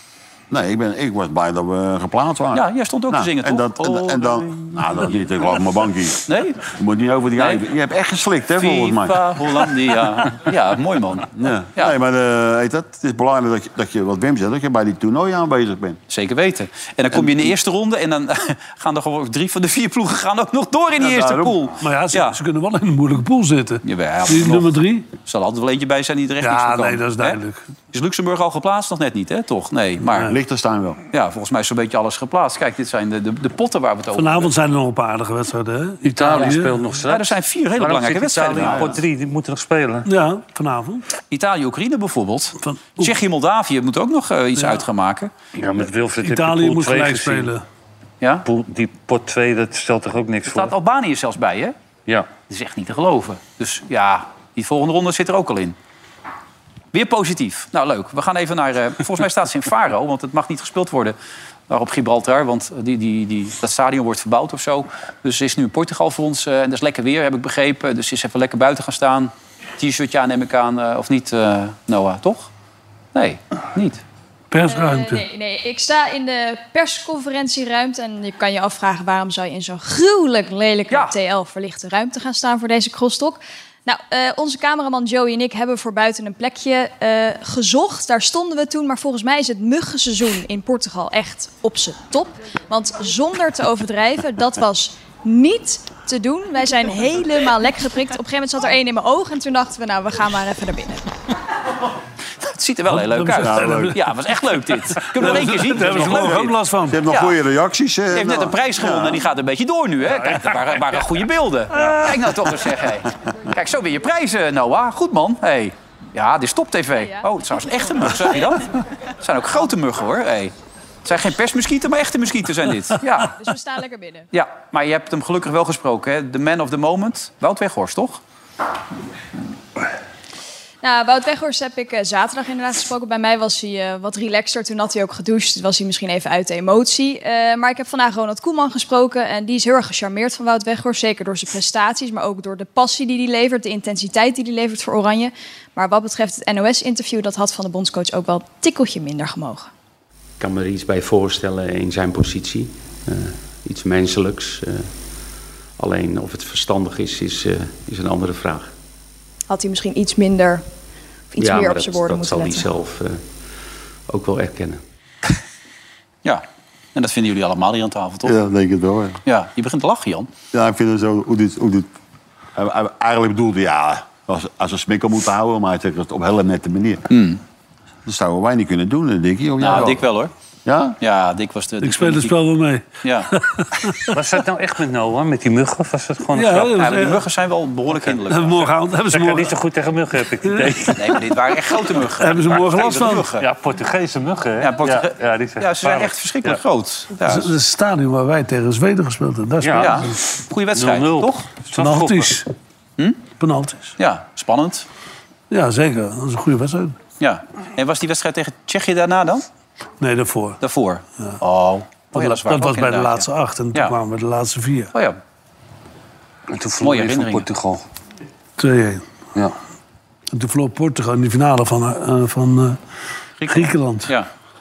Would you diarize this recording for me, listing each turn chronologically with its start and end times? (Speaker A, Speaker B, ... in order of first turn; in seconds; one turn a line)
Speaker A: 0.5-9.3
Speaker B: 2.5-4.8
Speaker B: 6.3-6.6
Speaker B: 7.4-7.6
Speaker B: 8.6-11.9
Speaker A: 11.3-16.0
Speaker B: 16.1-22.4
Speaker A: 17.1-17.5
Speaker A: 21.0-21.7
Speaker C: 21.8-25.1
Speaker B: 23.9-27.4
Speaker C: 26.4-27.7
Speaker B: 27.9-30.4
Speaker C: 30.1-30.4
Speaker A: 30.3-31.0
Speaker B: 31.1-34.5
Speaker C: 34.1-36.8
Speaker D: 36.0-40.1
Speaker B: 37.0-39.0
Speaker A: 38.6-38.9
Speaker C: 40.0-41.0
Speaker B: 41.3-45.3
Speaker C: 42.6-43.1
Speaker C: 44.6-44.9
Speaker D: 45.6-47.5
Speaker C: 46.2-47.6
Speaker D: 48.5-50.7
Speaker B: 50.5-51.8
Speaker B: 52.5-55.8
Speaker B: 56.9-61.2
Speaker B: 61.7-72.5
Speaker B: 73.1-74.0
Speaker C: 74.5-75.2
Speaker E: 74.6-101.1
Speaker B: 102.4-107.4
Speaker C: 102.9-104.3
Speaker A: 103.4-104.0
Speaker C: 104.9-107.0
Speaker A: 106.1-109.2
Speaker B: 108.1-120.5
Speaker D: 110.1-110.6
Speaker C: 111.8-112.1
Speaker B: 121.0-123.3
Speaker E: 123.4-124.3
Speaker B: 124.3-128.2
Speaker E: 130.8-149.7
Speaker F: 150.4-154.9
Speaker F: 155.8-158.7
Speaker E: 159.5-160.6
Speaker E: 161.3-162.7
Speaker F: 161.4-163.2
Speaker F: 164.1-164.8
Speaker B: 166.9-168.3
Speaker A: 168.2-169.2
Speaker B: 169.3-170.3
Speaker A: 170.5-171.9
Speaker A: 172.6-177.1
Speaker B: 177.1-177.4
Speaker A: 178.1-180.1
Speaker B: 179.6-180.3
Speaker A: 180.7-181.0
Speaker B: 181.0-182.4
Speaker C: 181.8-184.2
Speaker B: 183.0-183.3
Speaker D: 184.1-186.8
Speaker C: 186.3-187.3
Speaker B: 186.7-188.8
Speaker C: 188.3-189.6
Speaker D: 189.1-191.0
Speaker C: 190.4-191.2
Speaker B: 191.0-193.4
Speaker C: 192.2-193.3
Speaker D: 193.4-196.6
Speaker B: 194.6-197.5
Speaker C: 197.2-200.2
Speaker D: 199.6-200.1
Speaker B: 199.8-201.4
Speaker D: 200.8-202.4
Speaker C: 201.7-202.5
Speaker C: 203.4-203.9
Speaker B: 204.0-204.9
Speaker C: 205.5-207.0
Speaker B: 207.2-209.4
Speaker C: 210.0-210.6
Speaker B: 210.6-213.9
Speaker C: 212.1-214.9
Speaker B: 214.9-215.2
Speaker D: 216.5-217.8
Speaker B: 216.8-217.5
Speaker C: 218.6-219.1
Speaker C: 220.3-222.8
Speaker B: 223.4-224.3
Speaker C: 223.5-224.1